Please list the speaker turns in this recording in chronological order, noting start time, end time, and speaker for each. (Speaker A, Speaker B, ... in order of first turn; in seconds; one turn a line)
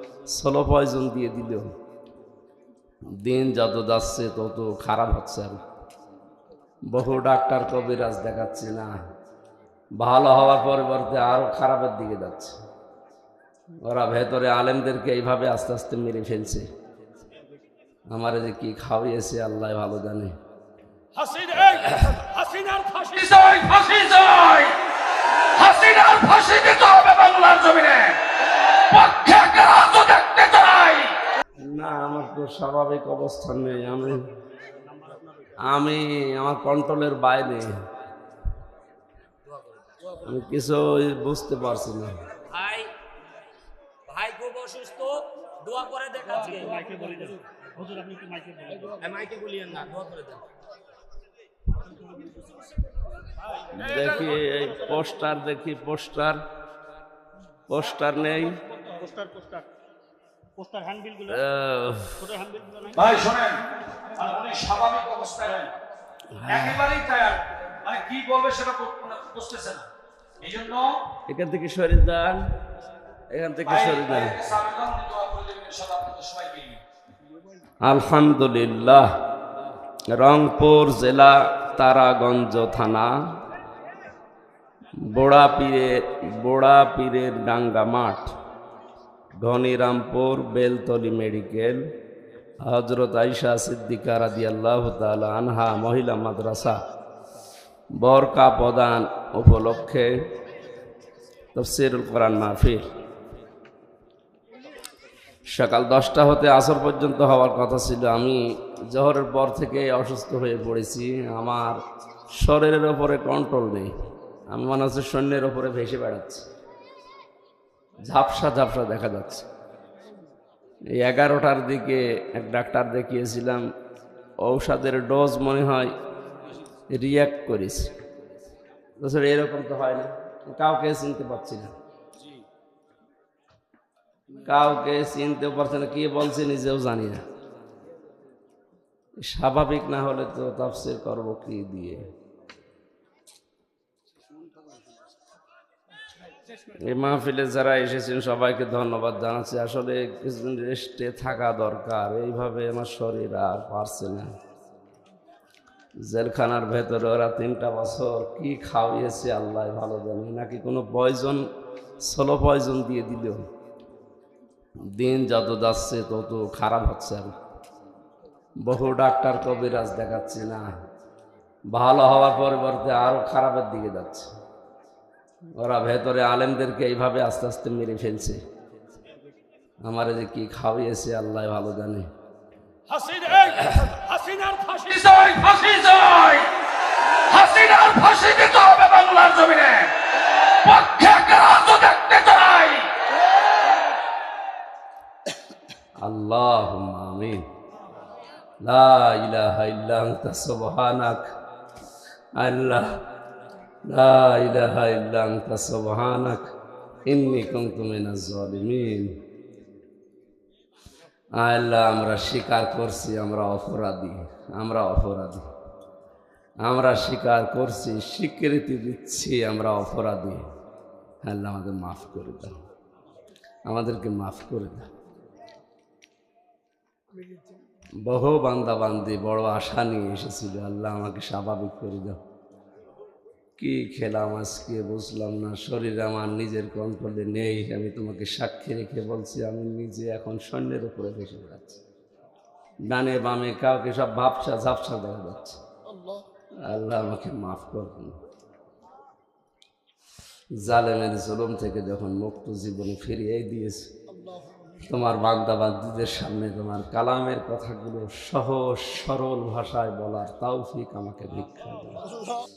Speaker A: 0.3-1.7
Speaker A: 3.2-5.6
Speaker A: 6.9-8.9
Speaker A: 10.0-12.6
Speaker A: 13.8-16.7
Speaker A: 18.1-20.4
Speaker B: 21.1-31.2
Speaker A: 21.8-22.2
Speaker C: 22.3-23.1
Speaker A: 31.6-34.3
Speaker C: 34.9-35.5
Speaker A: 35.6-37.8
Speaker D: 39.5-40.3
Speaker A: 40.2-42.2
Speaker D: 42.5-42.9
Speaker D: 44.1-47.6
Speaker C: 46.7-48.9
Speaker D: 48.8-50.5
Speaker A: 53.7-56.4
Speaker A: 57.7-58.6
Speaker C: 58.7-59.7
Speaker C: 60.6-61.4
Speaker A: 61.2-62.3
Speaker C: 62.2-63.1
Speaker B: 62.9-65.7
Speaker A: 66.3-66.9
Speaker B: 66.5-69.9
Speaker B: 70.4-71.0
Speaker A: 71.3-72.5
Speaker A: 73.3-74.4
Speaker B: 73.7-76.8
Speaker A: 77.8-79.1
Speaker A: 80.1-83.3
Speaker A: 85.0-88.3
Speaker A: 89.4-91.9
Speaker A: 92.6-96.8
Speaker A: 98.0-100.1
Speaker A: 101.5-102.9
Speaker A: 105.5-111.8
Speaker A: 112.4-113.9
Speaker A: 114.5-116.5
Speaker A: 118.0-119.5
Speaker A: 120.9-123.6
Speaker A: 124.4-125.9
Speaker A: 126.9-127.9
Speaker A: 129.0-131.7
Speaker A: 134.3-137.2
Speaker A: 139.2-142.1
Speaker A: 146.7-154.3
Speaker A: 156.0-161.4
Speaker A: 162.0-163.4
Speaker A: 165.0-167.3
Speaker A: 168.6-170.7
Speaker A: 171.7-174.3
Speaker A: 175.6-178.4
Speaker A: 179.8-182.1
Speaker C: 182.9-184.9
Speaker B: 184.8-192.9
Speaker A: 196.0-197.5
Speaker A: 198.6-201.3
Speaker A: 202.3-203.0
Speaker A: 203.8-206.5
Speaker A: 207.1-209.1
Speaker A: 211.3-215.5
Speaker A: 216.6-220.4
Speaker A: 221.2-222.6
Speaker A: 223.7-224.9
Speaker A: 228.0-232.2
Speaker A: 233.6-241.8
Speaker A: 242.9-245.6
Speaker A: 246.6-248.2
Speaker A: 250.6-253.9
Speaker A: 254.8-262.1